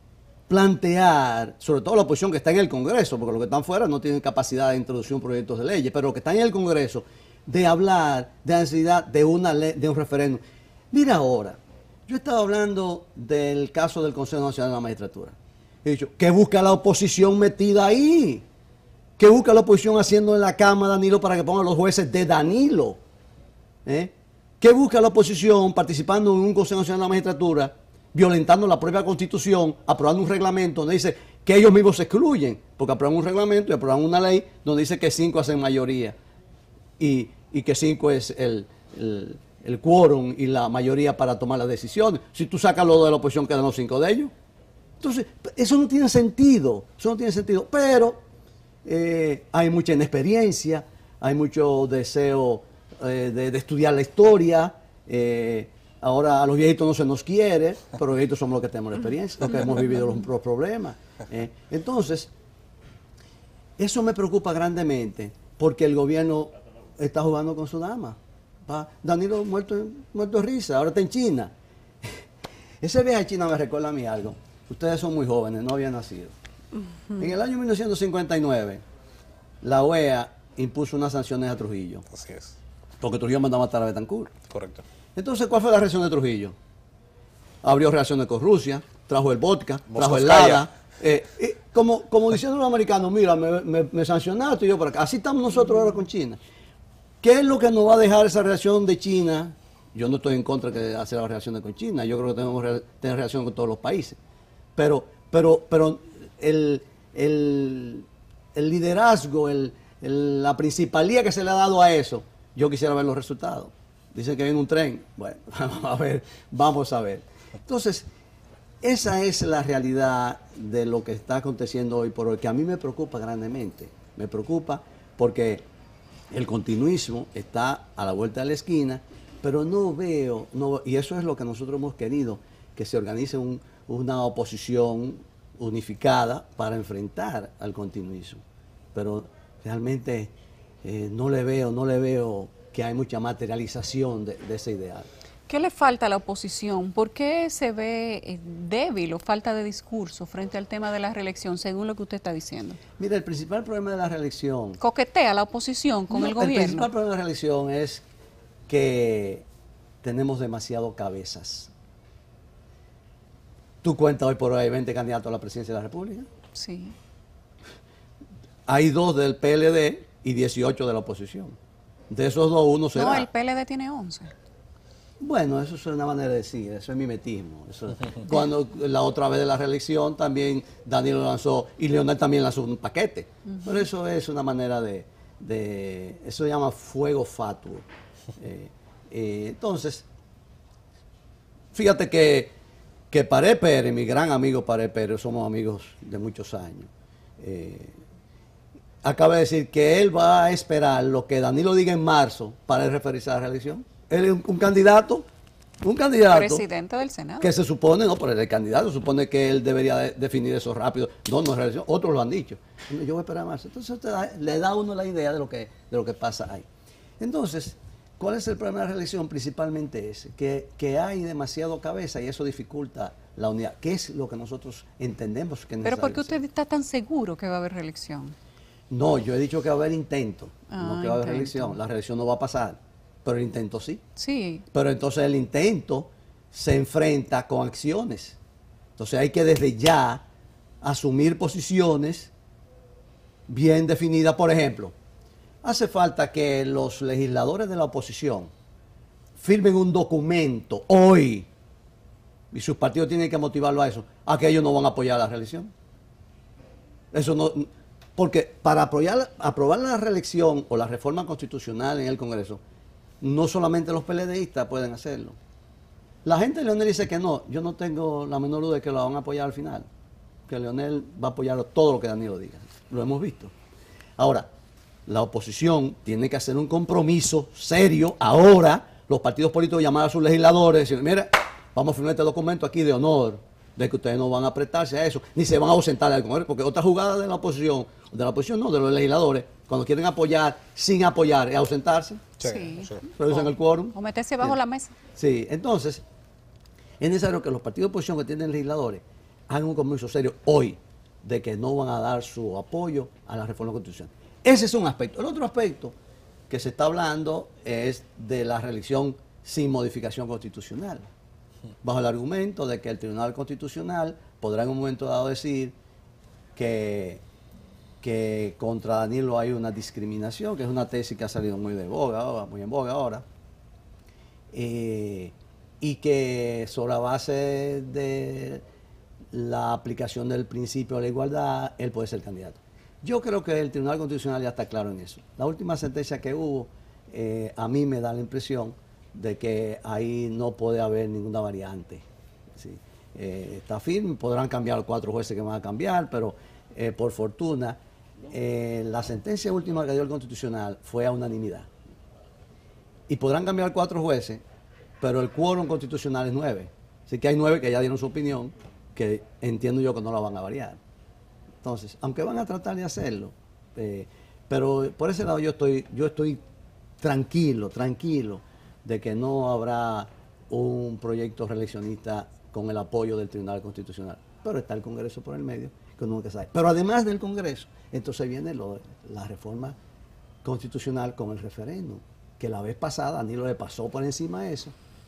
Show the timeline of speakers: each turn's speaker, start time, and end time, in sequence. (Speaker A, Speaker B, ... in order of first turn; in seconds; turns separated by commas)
Speaker A: 0.5-18.4, Speaker A: 19.2-23.0, Speaker A: 23.8-36.1, Speaker A: 37.0-44.3, Speaker A: 45.0-48.2, Speaker A: 48.8-62.3, Speaker A: 63.8-71.5, Speaker A: 72.8-76.3, Speaker A: 77.1-78.8, Speaker A: 79.6-82.0, Speaker B: 82.1-82.5, Speaker A: 83.0-84.4, Speaker B: 84.5-84.8, Speaker A: 85.2-86.5, Speaker A: 87.6-96.4, Speaker B: 89.9-90.6, Speaker A: 97.2-104.2, Speaker A: 104.8-118.1, Speaker A: 118.8-125.6, Speaker A: 126.3-138.4, Speaker A: 138.9-145.1, Speaker C: 145.5-152.8, Speaker A: 153.0-154.8, Speaker C: 154.8-156.9, Speaker A: 156.1-158.0, Speaker A: 158.7-159.4, Speaker A: 160.0-161.7, Speaker A: 163.8-166.3, Speaker C: 166.5-166.9, Speaker A: 168.7-171.6, Speaker A: 172.1-173.3, Speaker C: 172.9-174.3, Speaker A: 175.2-187.8, Speaker C: 183.5-183.8, Speaker A: 188.4-190.1, Speaker A: 191.7-192.5, Speaker A: 193.1-197.9, Speaker A: 199.0-205.2, Speaker A: 205.8-206.6, Speaker C: 206.3-207.5, Speaker A: 207.4-216.7, Speaker A: 217.2-226.3, Speaker C: 225.8-228.3, Speaker A: 228.9-234.0, Speaker C: 230.7-231.8, Speaker C: 234.2-234.7, Speaker A: 234.7-238.4, Speaker A: 239.0-240.2, Speaker A: 240.8-242.3, Speaker A: 243.5-244.9, Speaker A: 245.6-248.5, Speaker A: 249.3-251.5, Speaker A: 252.5-255.7, Speaker A: 257.1-262.6, Speaker A: 263.2-265.4, Speaker A: 266.2-269.9, Speaker A: 270.5-273.5, Speaker A: 274.2-274.5, Speaker A: 275.1-292.3, Speaker B: 292.4-293.0, Speaker C: 292.4-294.9, Speaker A: 293.2-294.5, Speaker A: 295.1-296.0, Speaker A: 297.0-305.9, Speaker A: 306.5-311.1, Speaker A: 311.8-315.8, Speaker A: 316.6-317.2, Speaker A: 318.0-323.2, Speaker A: 324.5-328.6, Speaker A: 329.3-351.7, Speaker A: 353.1-354.4, Speaker A: 355.0-360.8, Speaker A: 361.6-366.4, Speaker A: 367.0-379.8, Speaker A: 380.4-384.7